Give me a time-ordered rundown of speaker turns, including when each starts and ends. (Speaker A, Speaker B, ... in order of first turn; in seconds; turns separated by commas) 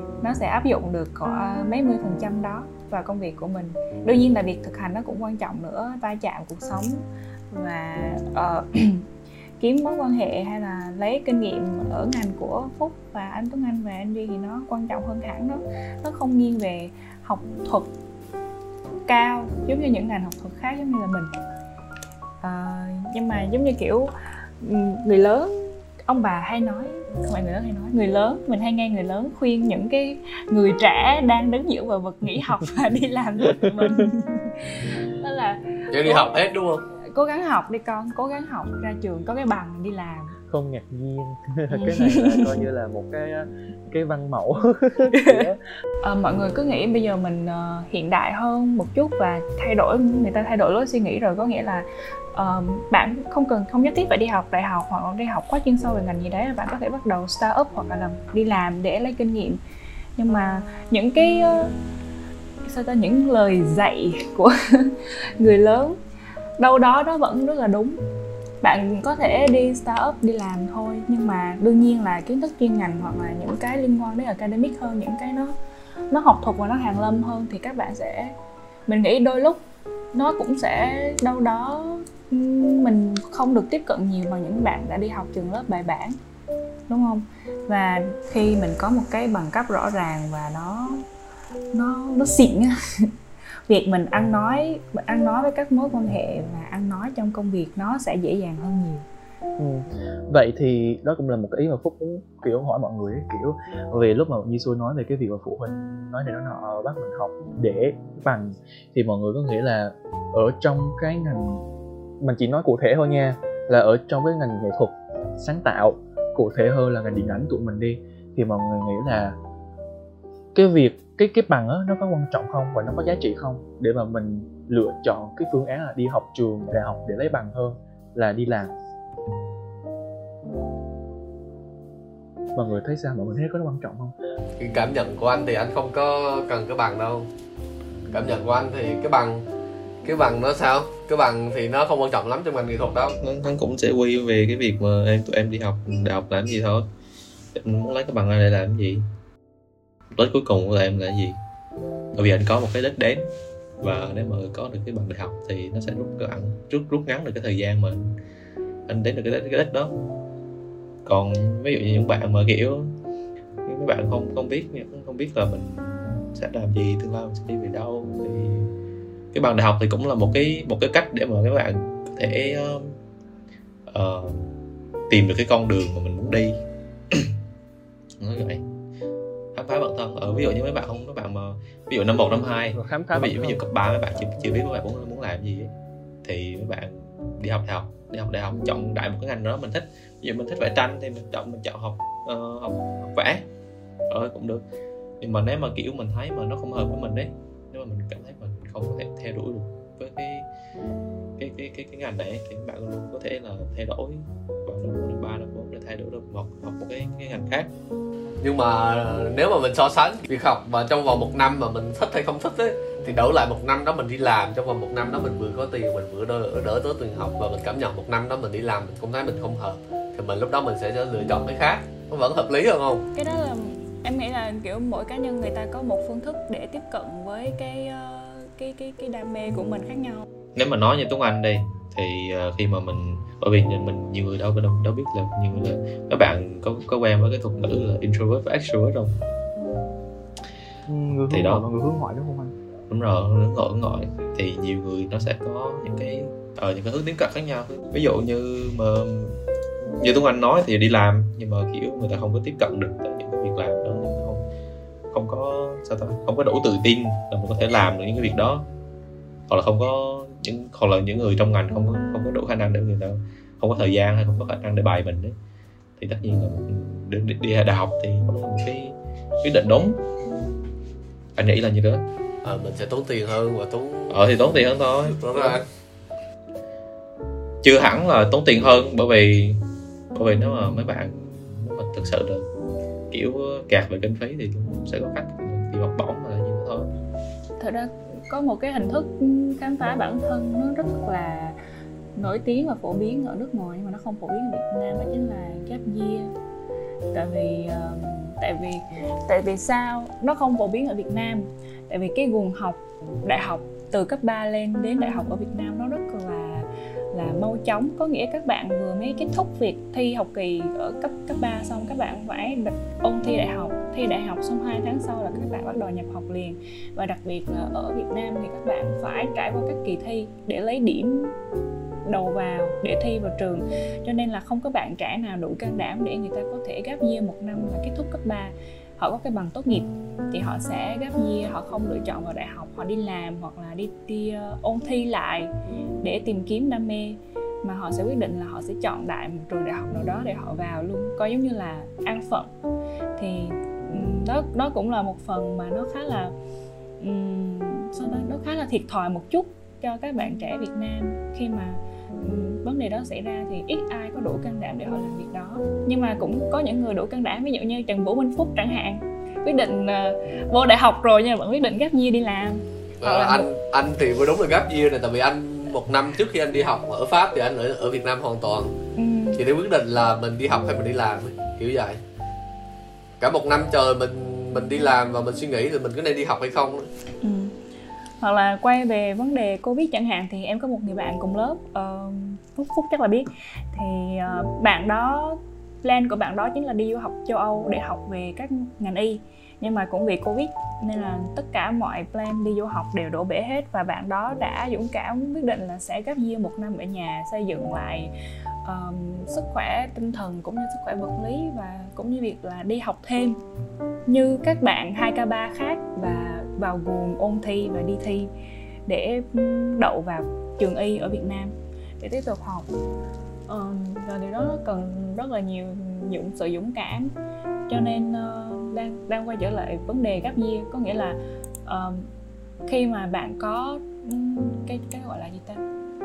Speaker A: 0.2-9.0, Speaker A: 9.6-17.9, Speaker A: 19.0-21.3, Speaker A: 22.4-36.4, Speaker B: 35.9-36.8, Speaker A: 36.9-40.4, Speaker C: 40.5-45.6, Speaker A: 41.7-42.5, Speaker A: 45.1-45.4, Speaker A: 46.0-59.6, Speaker A: 60.2-61.7, Speaker A: 62.6-66.0, Speaker A: 66.6-68.0, Speaker A: 68.6-75.5, Speaker A: 76.1-78.3, Speaker A: 78.9-79.6, Speaker A: 80.1-86.2, Speaker A: 86.9-91.0, Speaker A: 91.7-93.1, Speaker A: 93.7-99.0, Speaker C: 99.6-111.6, Speaker C: 112.2-119.3, Speaker C: 120.5-128.7, Speaker C: 132.5-134.1, Speaker B: 134.6-137.3, Speaker B: 138.1-139.4, Speaker B: 140.0-143.2, Speaker D: 143.2-146.8, Speaker D: 147.5-149.0, Speaker D: 150.2-151.4, Speaker D: 152.1-153.3, Speaker D: 153.8-158.2, Speaker D: 158.9-159.9, Speaker D: 161.0-162.9, Speaker D: 163.6-168.7, Speaker D: 169.3-173.0, Speaker D: 173.9-174.5, Speaker D: 175.1-176.6, Speaker D: 178.2-178.6, Speaker D: 179.5-185.7, Speaker C: 182.3-183.6, Speaker D: 186.2-193.4, Speaker D: 194.1-194.6, Speaker D: 195.2-200.4, Speaker D: 201.4-207.7, Speaker B: 208.4-223.1, Speaker A: 223.1-230.2, Speaker D: 230.5-239.2, Speaker C: 240.9-242.5, Speaker D: 241.3-241.6, Speaker D: 242.9-249.4, Speaker D: 250.0-254.4, Speaker D: 255.1-258.6, Speaker D: 259.5-265.4, Speaker D: 266.0-270.0, Speaker D: 271.4-272.0, Speaker B: 272.4-274.2, Speaker D: 274.1-275.6, Speaker B: 275.0-275.6, Speaker D: 277.6-279.6, Speaker D: 280.1-282.4, Speaker D: 283.1-286.9, Speaker A: 287.6-291.6, Speaker A: 292.1-296.3, Speaker A: 297.1-321.3, Speaker A: 322.0-335.5, Speaker A: 336.0-342.5, Speaker A: 343.2-346.3, Speaker A: 347.0-363.4, Speaker B: 363.0-368.7, Speaker A: 368.9-369.4, Speaker B: 369.4-372.0, Speaker B: 373.2-376.9, Speaker A: 377.2-377.5, Speaker A: 378.2-398.1, Speaker A: 398.6-403.4, Speaker A: 404.1-408.3, Speaker A: 408.9-412.7, Speaker A: 413.5-417.1, Speaker A: 417.7-422.1, Speaker A: 422.6-425.6